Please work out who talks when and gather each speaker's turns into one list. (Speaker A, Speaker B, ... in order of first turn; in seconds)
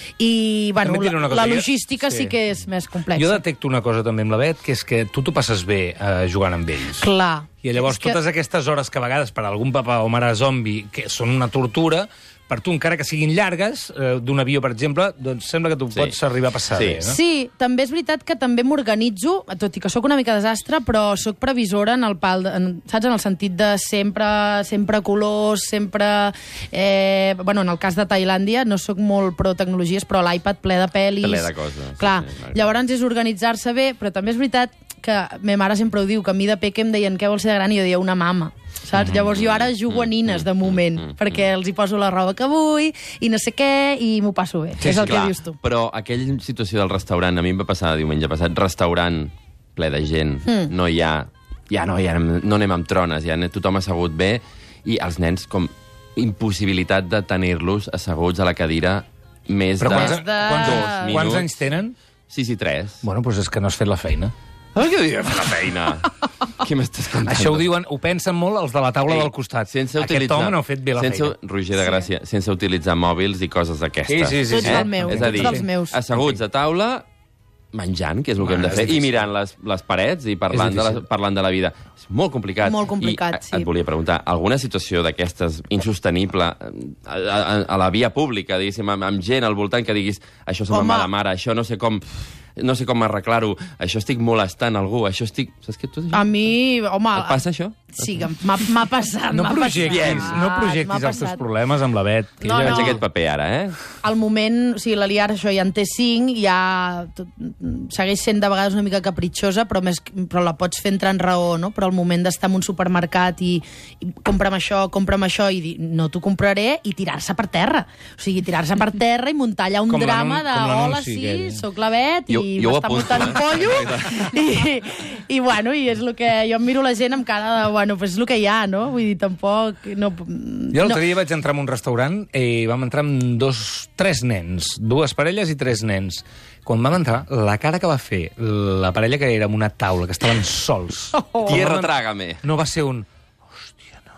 Speaker A: 0.2-3.4, 7.0-8.2, 17.0-45.6, 50.5-50.7, 59.9-61.3, 74.5-76.0, 82.6-83.7, 90.7-91.1, 96.1-97.4, 97.9-101.4, 102.4-103.0, 104.0-131.1, 141.1-141.6
Speaker B: 0.8-2.4, 3.1-7.1, 7.6-17.2, 44.8-45.2, 59.8-61.9, 63.0-64.3, 67.2-71.3, 74.1-75.6, 78.4-79.2, 80.5-81.0, 99.3-103.0, 119.9-121.6, 130.7-141.9, 142.4-143.1, 143.7-144.0
Speaker C: 15.9-16.2, 16.7-17.0, 31.2-32.8, 39.0-41.4, 44.8-61.5, 62.3-63.0, 64.8-67.7, 69.1-77.0, 77.7-92.1, 92.6-96.4, 97.1-98.0, 99.9-100.4, 102.5-103.8, 122.3-124.3, 141.4-142.4